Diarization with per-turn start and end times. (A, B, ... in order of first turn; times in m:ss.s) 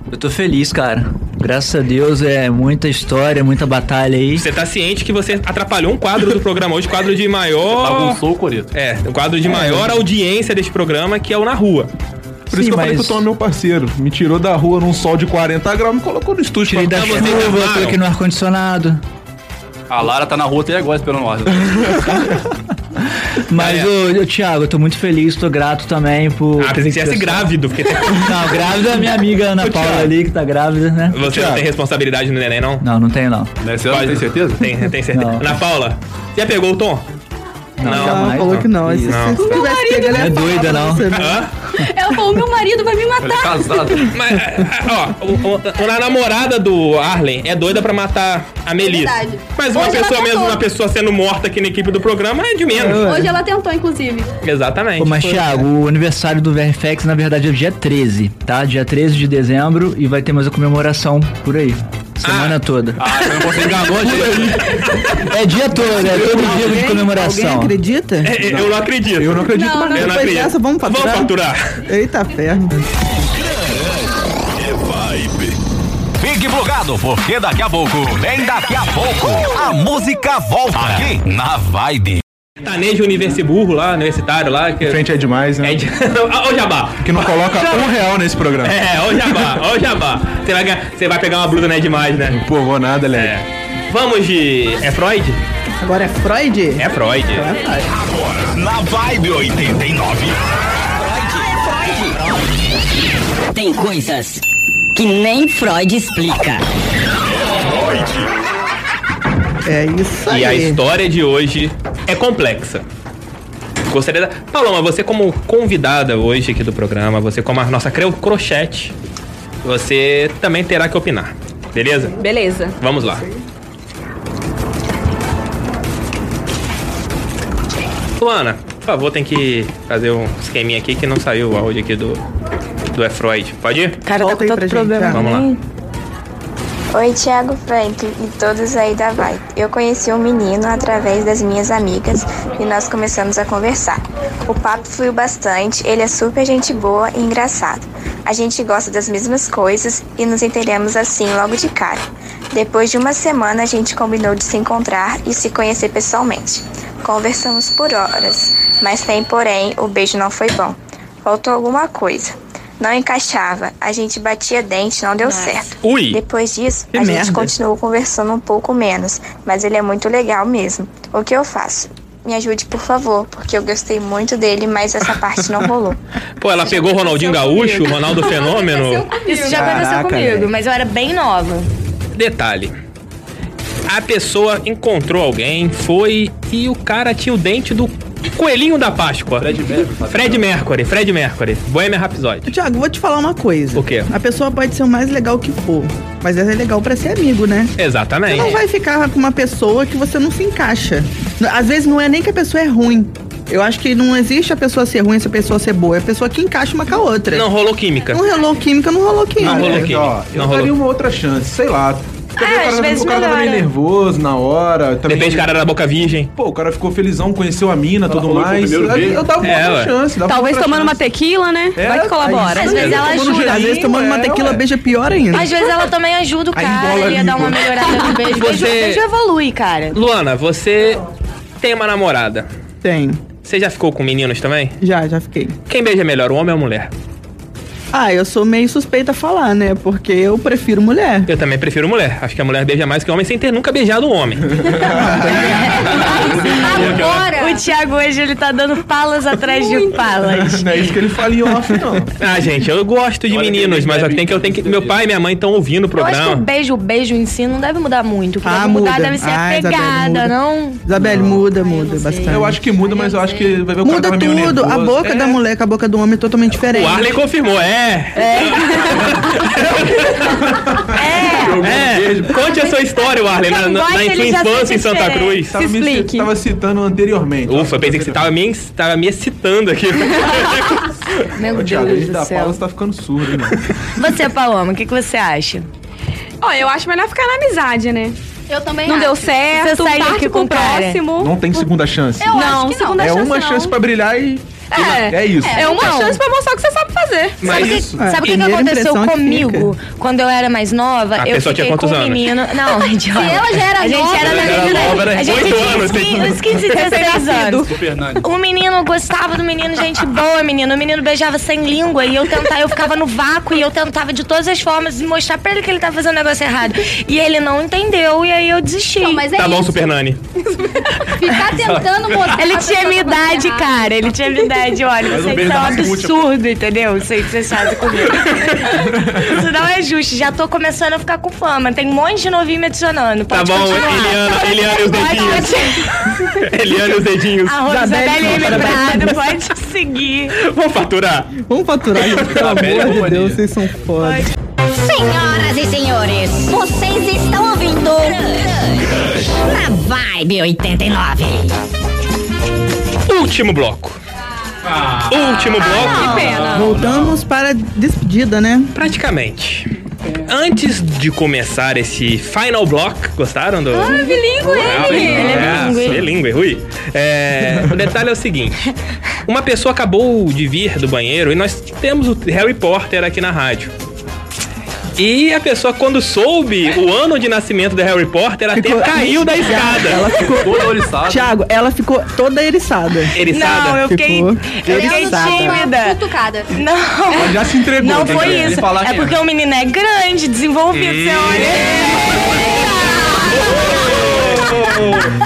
0:00.1-0:04.4 A
0:04.4-0:08.2 B
0:07.7-0:08.7 C
0:08.7-0:11.9 B
0:09.4-0:09.9 A
0:12.5-0:17.5 D
0:12.5-0:13.2 A
0:16.6-0:19.0 A
0:16.9-0:18.0 B
0:19.9-0:22.2 C
0:23.5-0:27.5 A
0:23.6-0:23.9 B
0:26.6-0:28.6 B
0:28.1-0:31.2 A
0:29.6-0:30.1 D
0:31.1-0:32.8 B
0:31.2-0:31.6 D
0:32.8-0:33.5 A
0:33.6-0:34.7 C
0:33.9-0:37.0 B
0:35.1-0:35.5 A
0:37.8-0:39.4 A
0:37.8-0:39.6 B
0:37.8-0:41.5 E
0:39.4-0:40.6 F
0:40.0-0:41.1 A
0:41.1-0:41.5 B
0:41.8-0:43.9 G
0:43.2-0:44.1 C
0:44.1-0:53.2 B
0:48.8-0:50.6 G
0:52.7-0:53.3 E
0:52.9-0:54.3 G
0:54.4-0:55.6 B
0:55.0-1:03.0 A
1:02.2-1:02.6 B
1:03.0-1:04.8 C
1:03.4-1:05.2 B
1:05.3-1:07.8 A
1:06.1-1:08.4 E
1:08.2-1:11.6 B
1:08.4-1:10.2 D
1:09.5-1:10.0 F
1:09.9-1:11.3 E
1:11.8-1:12.8 E
1:13.3-1:14.0 H
1:14.6-1:15.5 H
1:16.2-1:22.2 H
1:22.6-1:25.0 B
1:24.8-1:25.8 D
1:25.6-1:27.9 B
1:27.0-1:28.8 D
1:28.6-1:32.4 B
1:32.3-1:33.3 D
1:33.1-1:35.4 B
1:35.8-1:37.8 E
1:36.8-1:37.5 B
1:38.0-1:40.4 H
1:41.0-1:42.2 I
1:43.5-1:44.4 I
1:44.9-1:46.6 I
1:47.7-1:48.1 H
1:49.6-1:50.8 E
1:50.3-1:52.8 B
1:53.9-1:58.9 B
1:59.6-2:02.2 B
2:02.2-2:02.8 F
2:02.8-2:03.2 B
2:08.2-2:12.2 B
2:12.9-2:14.0 B
2:14.0-2:15.6 J
2:14.2-2:15.2 E
2:15.1-2:15.5 B
2:16.9-2:56.0 K
2:45.2-2:45.6 J
2:45.8-2:46.2 B
2:46.9-2:47.5 E
2:56.4-2:59.1 B
2:56.7-2:59.8 G
2:59.2-3:01.7 J
2:59.4-3:00.5 D
3:02.1-3:02.7 B
3:03.9-3:12.5 B
3:09.4-3:10.5 C
3:12.4-3:17.7 E
3:13.7-3:14.1 B
3:17.8-3:18.6 B
3:18.3-3:27.5 E
3:27.3-3:28.2 B
3:28.1-3:29.9 E
3:29.4-3:35.5 D
3:29.4-3:30.7 B
3:32.4-3:33.7 J
3:35.1-3:36.3 B
3:36.4-3:41.0 D
3:38.0-3:39.4 C
3:39.4-3:39.9 B
3:40.2-3:42.9 F
3:41.7-3:44.6 D
3:42.5-3:43.9 J
3:42.7-3:43.1 B
3:43.2-3:45.5 E
3:45.3-3:50.0 J
3:46.5-3:48.1 D
3:48.2-3:49.0 B
3:49.9-3:51.0 B
3:51.6-3:52.5 B
3:52.8-3:53.2 E
3:53.4-3:54.8 B
3:54.8-3:55.6 E
3:55.7-3:56.9 B
3:57.9-4:01.3 E
4:01.3-4:04.7 B
4:04.6-4:05.8 D
4:04.8-4:05.7 E
4:05.3-4:10.9 J
4:05.8-4:07.1 C
4:06.0-4:07.7 G
4:09.5-4:10.0 G
4:10.2-4:12.1 D
4:12.2-4:16.4 B
4:13.3-4:15.0 C
4:16.0-4:20.8 J
4:18.4-4:22.6 E
4:21.0-4:21.5 D
4:21.6-4:22.2 J
4:22.2-4:25.4 D
4:22.3-4:23.7 G
4:23.8-4:27.2 E
4:26.7-4:30.4 B
4:28.2-4:29.0 F
4:29.5-4:32.4 D
4:30.9-4:31.8 J
4:31.6-4:35.5 B
4:32.4-4:35.5 J
4:35.5-4:38.2 D
4:35.5-4:36.3 F
4:37.5-4:40.9 B
4:41.4-4:42.6 J
4:41.4-4:43.6 D
4:44.0-4:45.7 J
4:46.4-4:48.2 F
4:48.5-4:49.4 G
4:48.8-4:51.7 F
4:49.5-4:51.0 J
4:51.2-4:52.4 D
4:52.2-4:53.3 G
4:52.3-4:53.8 F
4:53.0-4:55.7 D
4:54.7-4:57.5 F
4:55.3-4:56.0 G
4:55.7-4:56.2 J
4:57.4-4:57.8 B
4:57.4-5:07.7 J
4:57.5-4:58.1 D
4:58.0-4:59.7 E
5:01.2-5:02.3 B
5:03.1-5:05.1 G
5:04.1-5:06.2 C
5:05.1-5:06.7 B
5:06.7-5:07.7 F
5:07.7-5:08.2 C
5:08.2-5:19.4 J
5:19.0-5:19.9 G
5:19.3-5:20.2 B
5:20.7-5:24.1 G
5:21.5-5:22.4 C
5:22.3-5:36.1 J
5:25.0-5:26.3 C
5:33.3-5:35.8 B
5:36.3-5:37.6 B
5:37.4-5:40.4 J
5:37.6-5:39.2 E
5:38.3-5:38.7 B
5:40.4-5:41.4 B
5:41.5-5:44.3 E
5:42.0-5:43.0 B
5:42.2-5:43.4 C
5:44.0-5:44.3 J
5:44.7-5:51.5 I
5:53.0-5:54.0 B
5:54.6-5:57.2 C
5:55.1-5:56.4 B
5:55.6-5:56.8 F
5:56.4-5:58.7 E
5:58.7-5:59.7 B
6:00.2-6:08.7 B
6:03.7-6:05.6 F
6:03.8-6:05.2 G
6:04.6-6:06.1 J
6:04.9-6:05.8 C
6:09.2-6:13.7 B
6:15.0-6:20.2 B
6:18.5-6:23.2 E
6:20.2-6:21.3 C
6:23.1-6:23.9 B
6:23.2-6:26.0 J
6:23.8-6:25.6 E
6:24.7-6:26.6 G
6:26.5-6:34.2 J
6:27.1-6:28.7 D
6:27.9-6:29.2 C
6:30.7-6:31.8 B
6:34.0-6:35.1 D